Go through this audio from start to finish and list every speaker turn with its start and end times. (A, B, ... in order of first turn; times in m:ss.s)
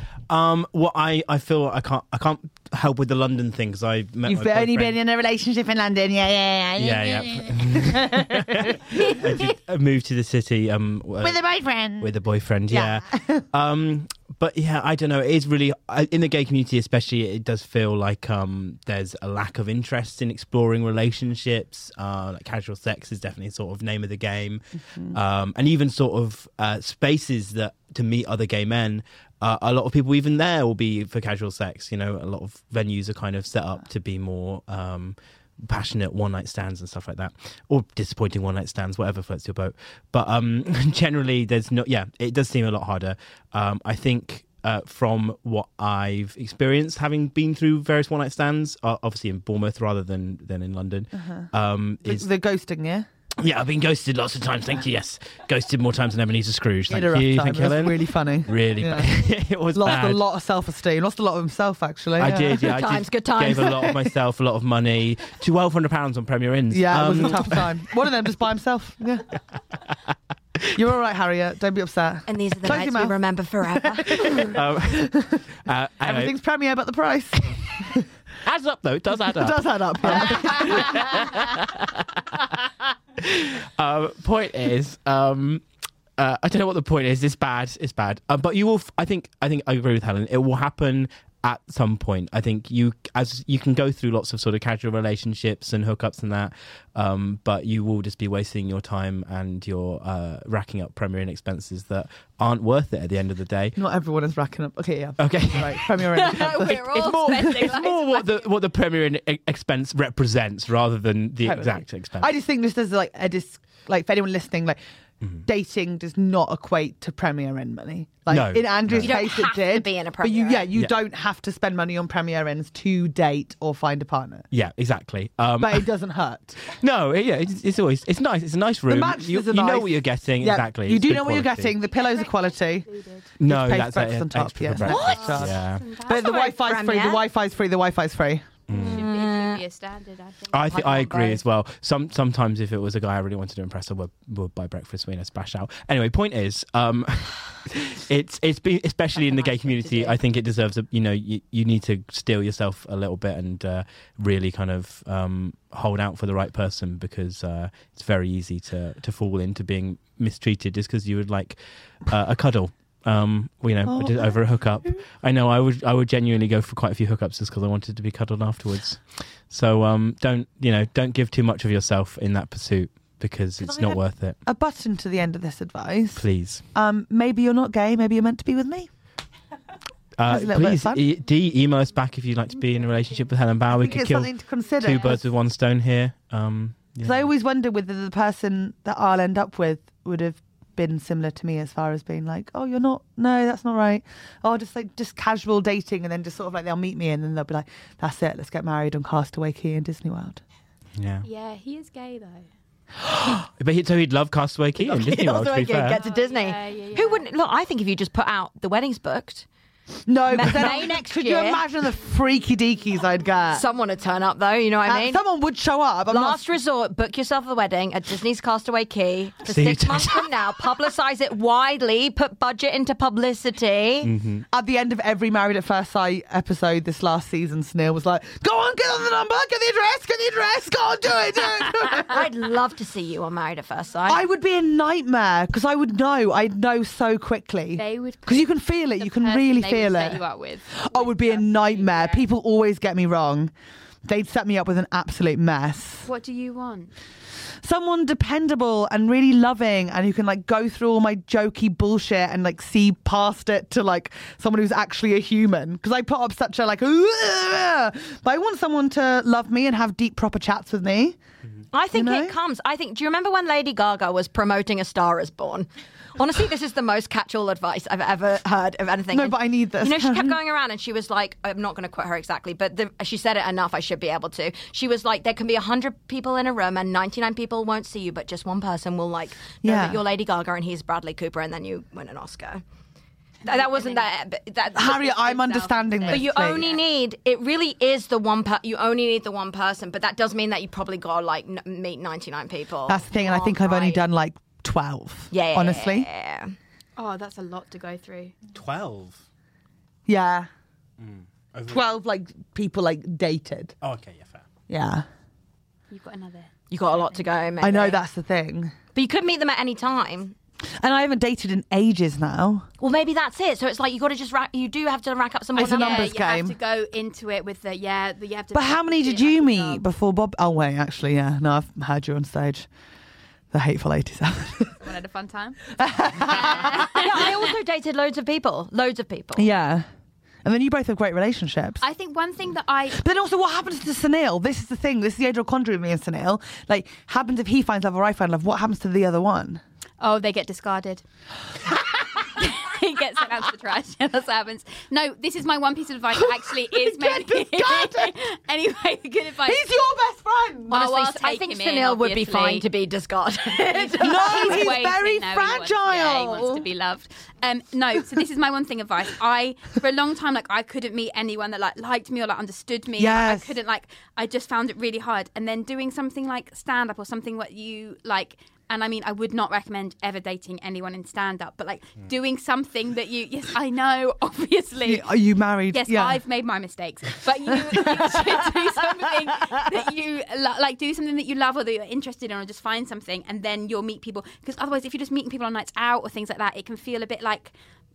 0:00.3-0:05.0 A
0:04.2-0:09.4 B
0:06.8-0:11.4 A
0:11.2-0:12.1 B
0:12.0-0:52.3 A
0:12.7-0:13.4 B
0:51.1-0:51.5 B
0:52.0-0:53.1 B
0:53.4-1:00.2 A
0:56.9-0:59.1 B
0:59.7-1:02.7 B
1:02.2-1:07.7 A
1:02.6-1:03.9 C
1:06.7-1:09.2 B
1:10.7-1:15.4 B
1:12.3-1:14.5 C
1:14.4-1:15.1 A
1:15.6-1:16.3 A
1:16.0-1:18.0 B
1:18.4-1:22.6 A
1:19.2-1:21.1 B
1:23.2-1:25.6 A
1:26.2-1:43.8 A
1:43.8-1:46.8 B
1:45.2-1:52.3 A
1:46.1-1:48.5 D
1:51.4-1:54.8 B
1:55.4-2:04.5 B
1:58.3-1:59.1 A
1:59.0-2:00.7 C
2:04.5-2:05.9 A
2:05.6-2:06.6 B
2:06.7-2:11.7 A
2:08.9-2:12.8 B
2:11.8-2:13.3 D
2:13.4-2:15.8 A
2:13.4-2:18.5 B
2:14.8-2:15.4 C
2:14.9-2:16.5 D
2:16.1-2:17.2 C
2:18.7-2:19.0 A
2:18.7-2:19.6 C
2:18.7-2:21.1 D
2:20.5-2:54.4 A
2:20.6-2:21.4 C
2:29.1-2:30.2 C
2:43.9-2:45.0 B
2:53.6-2:58.9 B
2:56.2-2:56.6 A
3:00.2-3:07.3 A
3:00.3-3:01.0 B
3:03.7-3:05.2 B
3:07.0-3:20.4 B
3:21.0-3:21.2 A
3:21.2-3:22.5 D
3:23.1-3:23.3 B
3:23.6-3:26.0 A
3:24.8-3:29.4 C
3:25.9-3:27.3 D
3:30.1-3:33.6 B
3:30.3-3:31.6 C
3:33.5-3:35.2 C
3:34.8-3:36.4 B
3:36.1-3:44.1 C
3:39.4-3:40.3 A
3:44.0-3:44.4 A
3:44.5-3:52.2 B
3:52.0-3:54.2 C
3:54.0-4:00.2 B
3:57.8-4:02.2 D
4:00.8-4:03.5 B
4:04.0-4:06.1 B
4:06.0-4:06.9 D
4:07.6-4:21.2 B
4:21.7-4:42.6 C
4:21.9-4:22.3 B
4:29.1-4:30.4 B
4:39.6-4:40.0 B
4:43.4-4:44.1 D
4:43.4-4:45.0 C
4:44.6-4:46.8 D
4:44.8-4:46.6 B
4:46.1-4:54.0 C
4:52.8-4:56.1 B
4:55.3-4:56.5 C
4:57.0-4:58.4 D
4:58.5-4:59.2 A
5:00.1-5:00.5 B
5:01.0-5:01.8 A
5:01.7-5:03.7 B
5:03.8-5:04.4 A
5:04.7-5:05.0 B
5:05.9-5:07.5 D
5:06.7-5:08.0 C
5:07.6-5:08.7 B
5:08.9-5:10.4 C
5:10.8-5:12.7 B
5:12.8-5:16.1 C
5:15.5-5:16.6 B
5:15.6-5:19.8 D
5:18.5-5:22.7 B
5:23.5-5:24.8 B
5:24.8-5:25.7 D
5:25.7-5:26.9 B
5:26.3-5:27.5 D
5:26.4-5:29.5 C
5:29.4-5:29.9 B
5:30.4-5:31.8 B
5:31.8-5:33.0 D
5:32.9-5:39.6 B
5:40.0-5:41.0 D
5:42.1-5:49.7 D
5:46.1-5:48.1 B
5:49.4-5:50.8 B
5:50.7-5:54.7 C
5:50.7-5:52.7 D
5:53.7-6:15.0 D
5:54.0-5:56.6 B
6:03.0-6:03.5 B
6:14.8-6:16.2 B
6:15.7-6:27.5 D
6:17.6-6:18.3 B